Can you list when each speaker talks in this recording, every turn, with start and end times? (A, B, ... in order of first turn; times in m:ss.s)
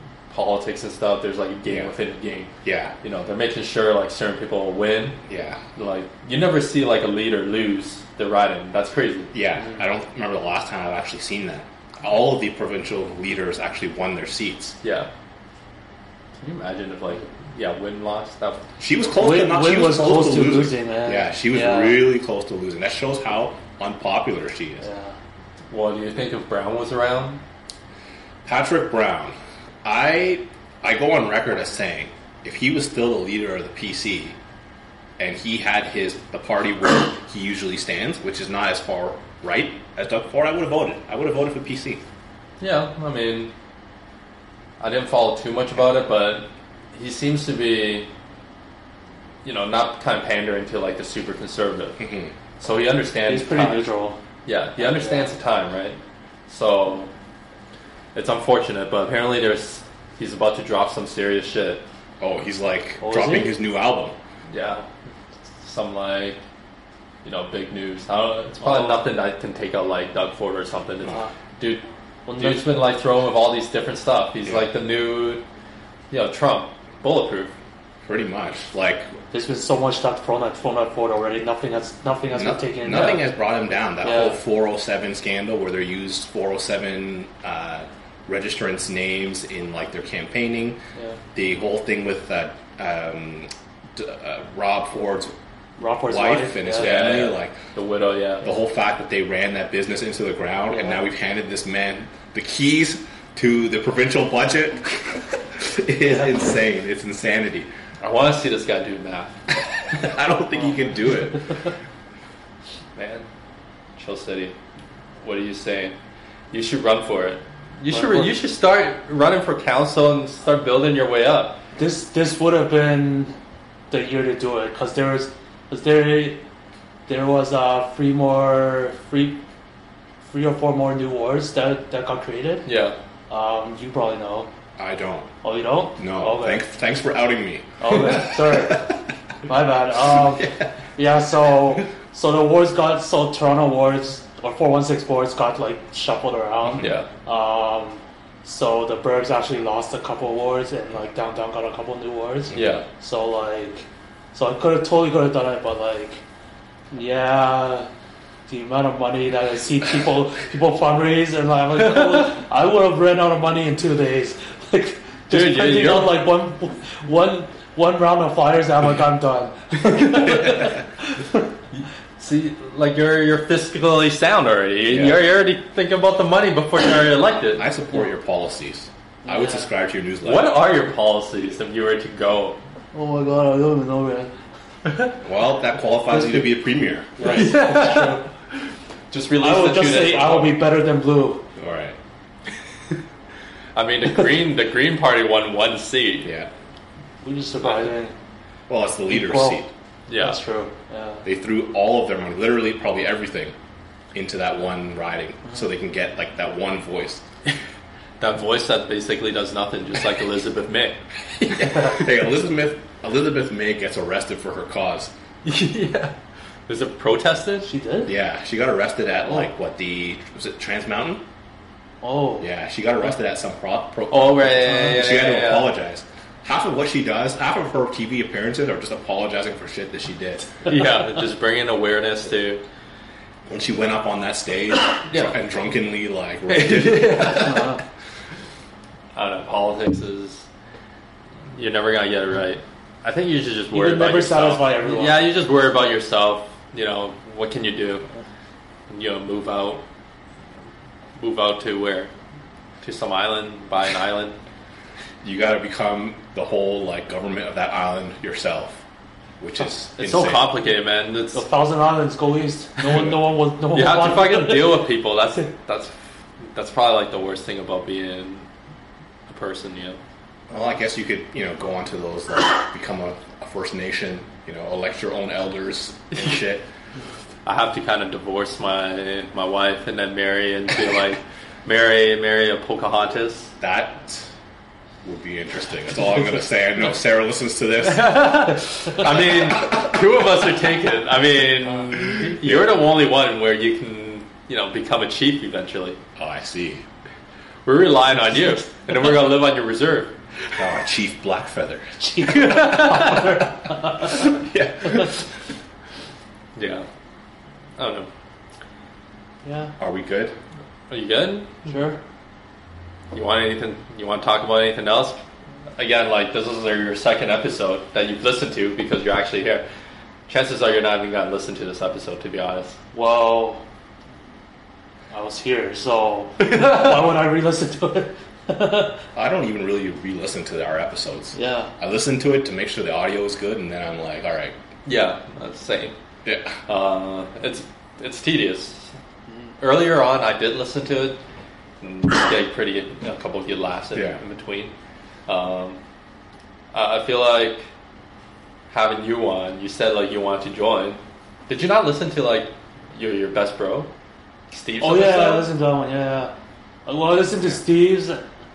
0:00.3-0:05.2 A
0:01.7-0:01.9 B
0:02.6-0:03.0 B
0:05.3-0:05.6 B
0:05.8-0:09.3 A
0:09.3-0:14.8 B
0:14.8-0:15.1 A
0:16.4-0:18.7 A
0:18.8-0:24.9 B
0:19.2-0:22.0 C
0:24.8-0:25.2 C
0:25.7-0:27.4 A
0:28.4-0:34.4 B
0:35.2-0:42.0 B
0:42.6-0:43.5 A
0:44.8-0:48.1 A
0:49.4-0:52.0 A
0:52.0-0:52.3 B
0:52.6-0:53.9 A
0:53.3-0:54.2 C
0:54.4-0:57.1 A
0:54.8-0:55.3 C
0:58.1-1:01.8 A
1:02.2-1:04.2 B
1:03.0-1:03.5 C
1:04.5-1:04.9 A
1:05.6-1:06.4 A
1:07.2-1:11.8 A
1:08.6-1:09.0 C
1:12.2-1:12.7 C
1:12.4-1:15.4 A
1:16.1-1:17.5 A
1:18.0-1:19.1 B
1:19.3-1:23.2 C
1:22.3-1:30.8 B
1:24.0-1:24.4 C
1:31.3-1:35.3 B
1:35.8-1:37.1 C
1:36.1-1:37.6 B
1:36.7-1:38.5 A
1:38.4-1:47.7 B
1:48.0-1:49.5 A
1:49.9-1:51.7 B
1:53.0-1:53.3 A
1:54.0-1:54.6 A
1:55.2-1:56.0 A
1:56.5-2:01.6 A
1:57.9-1:58.4 C
2:01.8-2:03.3 C
2:03.9-2:06.4 C
2:07.1-2:09.4 C
2:10.2-2:12.7 C
2:12.6-2:13.0 A
2:13.3-2:14.5 C
2:14.8-2:15.3 B
2:15.4-2:16.6 C
2:16.0-2:18.8 B
2:17.8-2:36.2 C
2:20.1-2:20.7 B
2:26.7-2:26.9 B
2:26.8-2:27.1 A
2:32.5-2:32.8 A
2:36.9-2:37.9 C
2:38.5-2:51.4 C
2:41.8-2:42.4 A
2:45.3-2:46.2 A
2:49.8-2:50.7 A
2:51.7-2:57.6 A
2:54.9-2:55.2 B
2:57.6-3:00.6 B
2:59.2-2:59.7 C
3:00.2-3:02.6 A
3:02.9-3:04.3 C
3:05.2-3:07.5 B
3:06.1-3:06.5 C
3:07.2-3:08.3 C
3:07.2-3:10.6 A
3:09.4-3:11.4 C
3:11.6-3:12.0 B
3:13.7-3:16.3 A
3:16.2-3:16.5 B
3:17.2-3:18.1 C
3:18.7-3:19.7 B
3:19.1-3:19.6 C
3:20.1-3:20.4 A
3:20.2-3:21.2 C
3:21.2-3:23.5 B
3:24.1-3:27.2 B
3:28.2-3:32.0 A
3:31.4-3:35.1 B
3:35.4-3:36.2 A
3:36.7-3:37.7 A
3:37.6-3:38.1 C
3:38.0-3:41.2 B
3:42.0-3:42.5 C
3:42.4-3:50.6 B
3:44.1-3:45.7 A
3:50.6-3:52.6 A
3:53.5-3:57.7 B
3:56.5-3:57.8 A
3:57.4-3:57.8 C
3:59.1-4:00.5 A
4:01.5-4:08.0 A
4:03.7-4:05.4 C
4:08.9-4:09.8 A
4:11.2-4:12.1 A
4:12.8-4:14.4 A
4:15.2-4:18.8 B
4:19.4-4:20.5 B
4:20.0-4:21.4 A
4:21.3-4:24.8 C
4:22.9-4:23.2 B
4:23.7-4:28.5 A
4:29.3-4:30.0 A
4:30.5-4:36.7 B
4:37.4-4:43.5 A
4:43.6-4:44.3 B
4:45.0-4:49.9 B
4:47.8-4:56.0 A
4:52.2-4:52.8 B
4:56.2-4:56.8 B
4:57.6-5:00.2 A
5:00.6-5:02.0 B
5:02.0-5:04.3 C
5:02.3-5:03.3 A
5:04.0-5:05.3 B
5:06.6-5:06.9 A
5:07.8-5:08.1 A
5:09.4-5:09.7 C
5:09.8-5:10.3 B
5:10.9-5:11.7 A
5:11.6-5:12.0 C
5:13.1-5:15.2 A
5:15.8-5:19.6 A
5:20.3-5:22.8 A
5:22.9-5:23.6 C
5:25.1-5:29.0 C
5:26.4-5:27.0 A
5:29.1-5:34.5 B
5:31.3-5:31.7 C
5:34.8-5:35.9 A
5:36.2-5:36.6 B
5:36.6-5:38.9 A
5:39.6-5:41.2 A
5:41.8-5:44.7 A
5:43.9-5:44.2 B
5:45.3-5:45.8 A
5:46.7-5:47.7 A
5:48.7-5:53.9 A
5:54.5-5:55.5 A
5:54.8-5:56.3 C
5:56.8-5:58.2 C